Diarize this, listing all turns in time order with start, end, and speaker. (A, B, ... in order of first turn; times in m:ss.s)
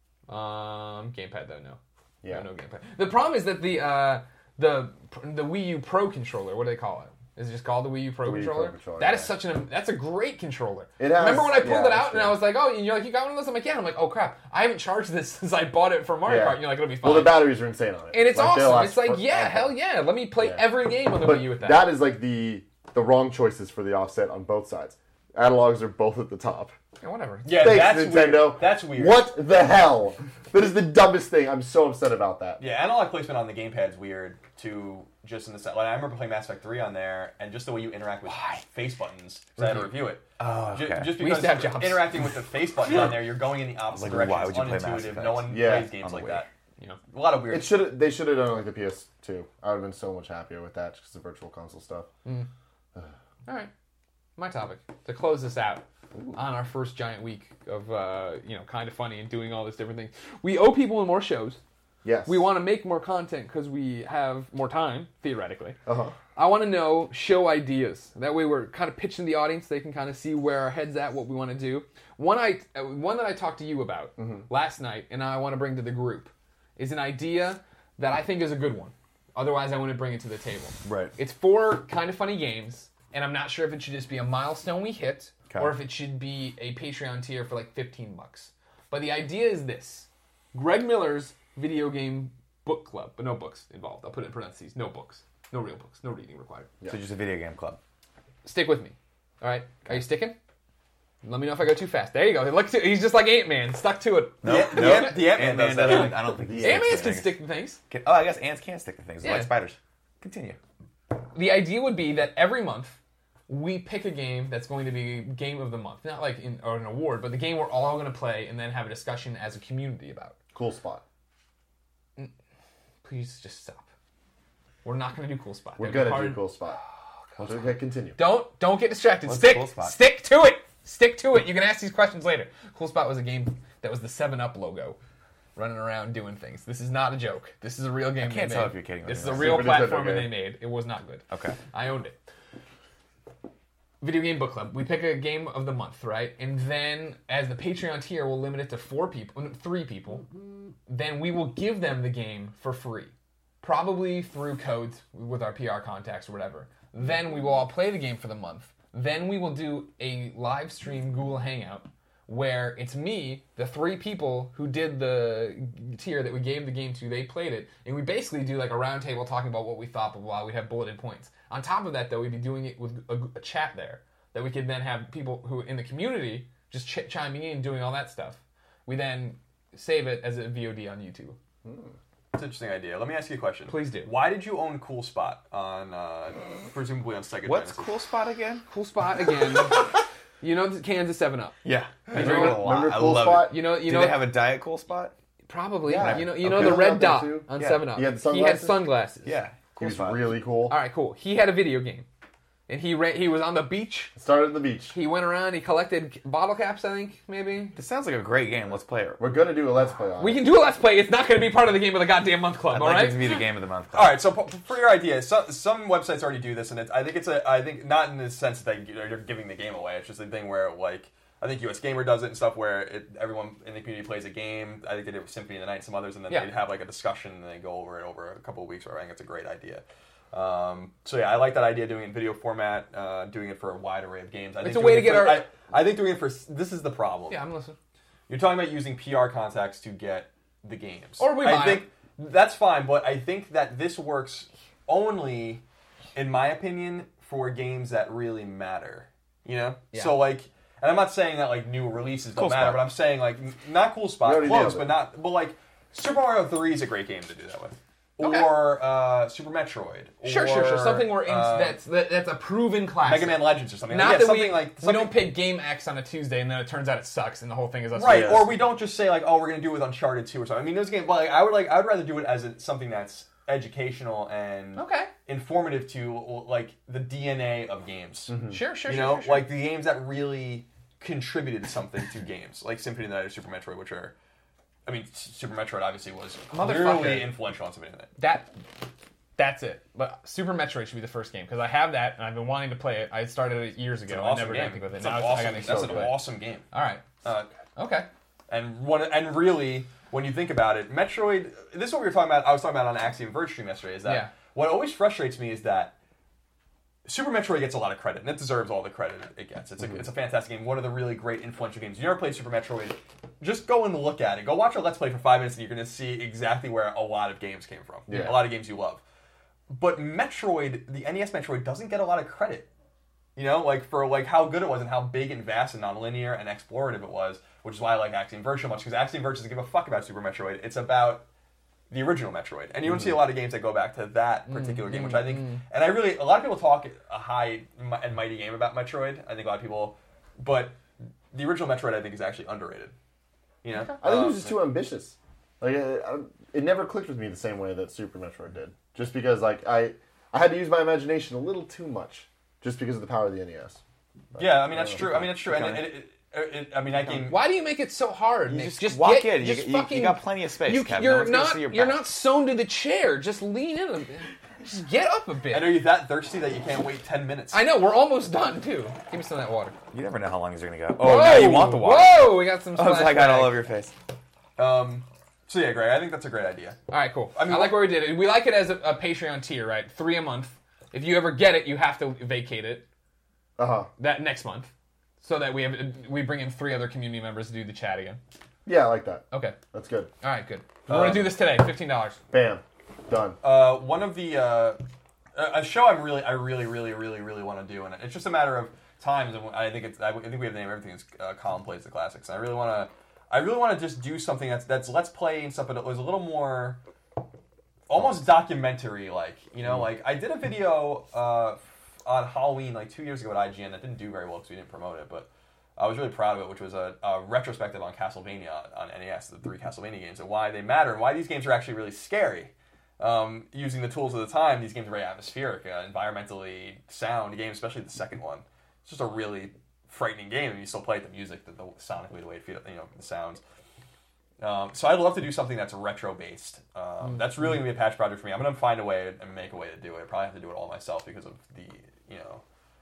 0:00.3-0:17.5 A
0:08.2-0:09.3 B
0:11.0-0:12.4 B
0:16.2-0:19.8 B
0:18.1-0:21.8 A
0:20.4-0:26.7 B
0:27.0-0:27.7 A
0:27.4-0:29.3 C
0:27.5-0:32.6 B
0:32.6-0:46.5 C
0:39.6-0:39.9 B
0:40.4-0:41.2 D
0:41.1-0:42.2 A
0:43.9-0:46.4 D
0:45.5-0:45.9 B
0:47.1-0:47.8 C
0:47.5-0:52.1 B
0:54.4-1:01.6 A
1:02.0-1:02.5 B
1:02.2-1:05.8 A
1:05.8-1:06.2 B
1:06.3-1:36.7 A
1:14.2-1:14.4 B
1:20.8-1:21.1 D
1:25.5-1:25.8 D
1:36.9-1:37.8 D
1:38.4-1:40.4 A
1:41.2-1:47.8 A
1:44.4-1:50.6 D
1:44.4-1:46.2 C
1:46.4-1:47.0 B
1:49.2-1:49.5 A
1:51.3-2:00.3 A
2:00.5-2:01.0 B
2:03.0-2:03.9 A
2:04.8-2:07.5 A
2:05.8-2:06.8 B
2:07.4-2:08.2 B
2:08.2-2:15.0 A
2:09.2-2:10.0 D
2:15.6-2:22.2 A
2:18.2-2:19.9 D
2:19.2-2:20.4 B
2:21.3-2:21.6 D
2:24.0-2:30.3 A
2:30.8-3:01.4 A
3:01.6-3:01.9 B
3:02.3-3:07.9 C
3:03.7-3:04.1 A
3:07.4-3:08.6 D
3:08.7-3:09.9 A
3:10.4-3:11.6 A
3:11.6-3:15.1 D
3:12.1-3:12.6 A
3:12.1-3:13.6 B
3:13.3-3:14.3 A
3:15.5-3:19.4 A
3:15.9-3:18.9 B
3:15.9-3:16.9 D
3:19.2-3:20.4 D
3:19.8-3:20.8 B
3:20.7-3:22.0 A
3:22.7-3:24.1 A
3:24.2-3:25.0 B
3:24.9-3:27.8 A
3:27.7-3:29.2 D
3:29.2-3:30.4 B
3:30.2-3:33.4 A
3:32.7-3:34.1 D
3:33.9-3:57.4 C
3:54.6-3:55.5 A
3:57.3-3:57.8 A
3:58.3-4:05.6 C
4:01.2-4:01.9 A
4:06.1-4:21.8 C
4:12.4-4:12.9 D
4:14.2-4:15.0 B
4:18.2-4:18.5 A
4:20.2-4:28.5 A
4:23.0-4:25.3 C
4:27.9-4:38.4 C
4:28.0-4:28.4 B
4:34.8-4:35.1 A
4:38.3-4:38.6 B
4:38.5-4:39.5 A
4:38.9-4:44.1 C
4:44.8-4:48.1 C
4:46.5-4:47.3 A
4:48.2-4:48.6 A
4:49.4-4:56.2 A
4:54.1-4:56.6 C
4:55.6-4:56.1 B
4:56.7-4:57.1 A
4:57.2-4:57.5 C
4:57.8-4:58.1 A
4:58.5-5:05.9 C
5:04.0-5:04.3 A
5:07.0-5:19.0 C
5:18.1-5:18.4 B
5:19.7-5:22.7 C
5:23.4-5:31.2 C
5:31.9-5:40.8 C
5:34.5-5:35.6 A
5:41.3-5:42.9 C
5:43.6-5:44.6 C
5:44.0-5:53.8 B
5:54.3-5:55.0 B
5:54.4-5:57.4 C
5:55.0-5:55.9 D
5:57.2-6:05.8 A
5:58.5-6:02.0 D
6:05.5-6:07.6 C
6:07.5-6:09.7 A
6:09.9-6:13.9 D
6:11.0-6:13.6 A
6:14.6-6:16.8 C
6:16.9-6:22.8 A
6:17.3-6:18.0 C
6:23.6-6:23.9 B
6:24.0-6:28.2 A
6:28.6-6:30.1 B
6:29.3-6:29.6 A
6:30.2-6:32.2 A
6:30.9-6:31.3 B
6:30.9-6:31.3 C
6:32.3-6:33.4 B
6:33.4-6:34.8 C
6:35.3-6:46.8 C
6:47.9-7:13.4 C
7:14.4-7:22.4 C